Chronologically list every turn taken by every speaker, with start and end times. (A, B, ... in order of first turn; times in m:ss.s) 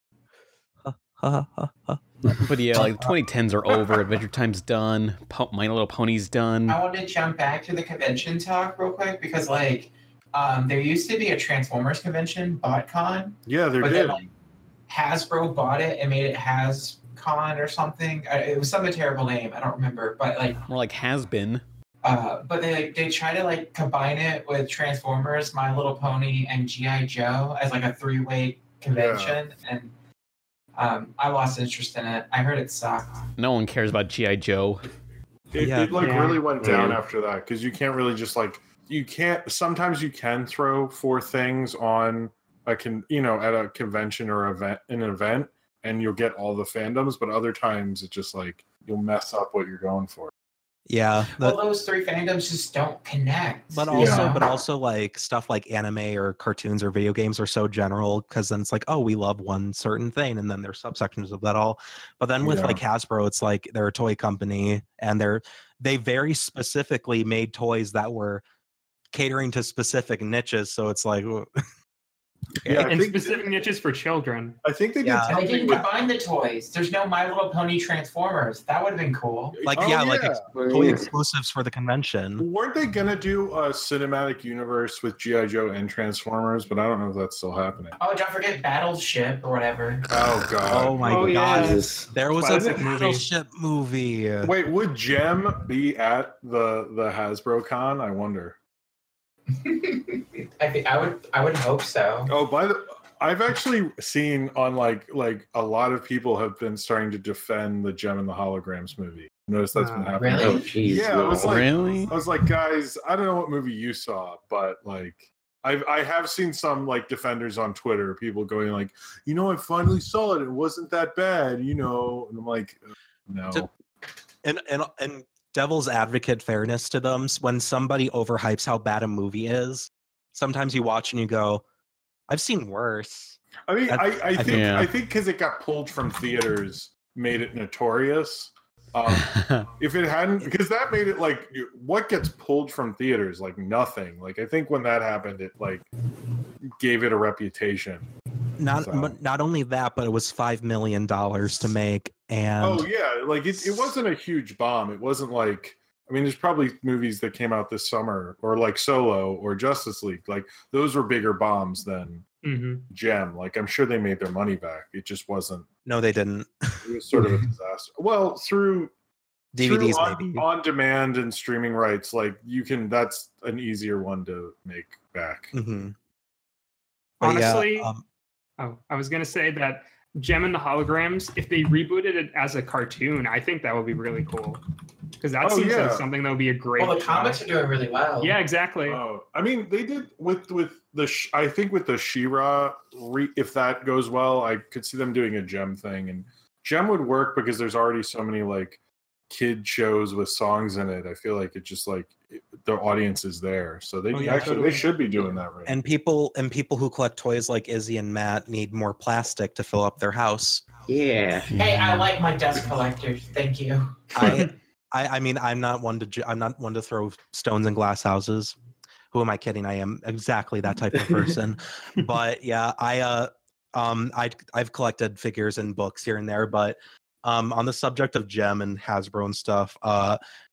0:00.8-0:03.1 A
0:02.4-0:06.8 B
0:06.7-0:14.3 C
0:13.5-0:14.2 D
0:14.9-0:20.6 C
0:20.7-0:21.6 B
0:22.0-0:29.9 C
0:28.9-0:29.4 D
0:30.8-0:33.2 C
0:33.4-0:34.8 B
0:35.5-0:50.3 D
0:35.6-0:36.1 A
0:36.0-0:36.5 E
0:36.6-0:37.0 F
0:50.9-0:51.6 A
0:51.4-0:54.4 C
0:53.7-1:08.4 A
0:53.9-0:54.3 D
1:02.4-1:02.8 D
1:09.1-1:11.5 A
1:12.6-1:12.9 A
1:12.6-1:13.5 D
1:12.8-1:14.6 E
1:14.6-1:15.8 D
1:15.0-1:15.4 A
1:15.3-1:19.6 C
1:19.5-1:20.9 D
1:19.6-1:22.5 A
1:20.6-1:21.0 F
1:22.4-1:28.0 D
1:28.0-1:30.1 C
1:30.1-1:31.6 D
1:30.6-1:34.5 A
1:31.0-1:33.2 E
1:31.3-1:32.0 F
1:32.4-1:32.9 D
1:34.4-1:38.6 D
1:39.5-1:42.3 C
1:42.3-2:03.7 D
1:49.7-1:50.2 E
1:50.2-1:50.7 C
1:50.2-1:51.7 F
1:51.4-1:52.1 B
2:04.4-2:11.6 A
2:12.3-2:14.8 A
2:13.7-2:25.9 D
2:14.5-2:14.9 B
2:19.3-2:19.6 B
2:26.6-2:28.1 D
2:28.6-2:32.9 A
2:28.7-2:29.2 D
2:32.6-2:42.2 D
2:42.4-2:42.8 E
2:42.9-2:45.7 D
2:45.8-2:47.4 A
2:46.8-2:48.9 D
2:49.5-2:50.5 A
2:49.6-2:55.5 D
2:55.5-2:55.9 A
2:57.2-2:57.9 E
2:57.2-2:58.0 A
2:58.6-3:04.6 E
3:05.2-3:07.4 E
3:05.4-3:06.0 D
3:06.8-3:08.4 C
3:08.2-3:09.0 E
3:08.8-3:25.8 D
3:24.1-3:25.0 E
3:25.6-3:30.6 A
3:30.9-3:31.6 F
3:31.5-3:34.4 C
3:31.5-3:32.0 B
3:34.1-3:38.6 A
3:39.1-3:50.2 A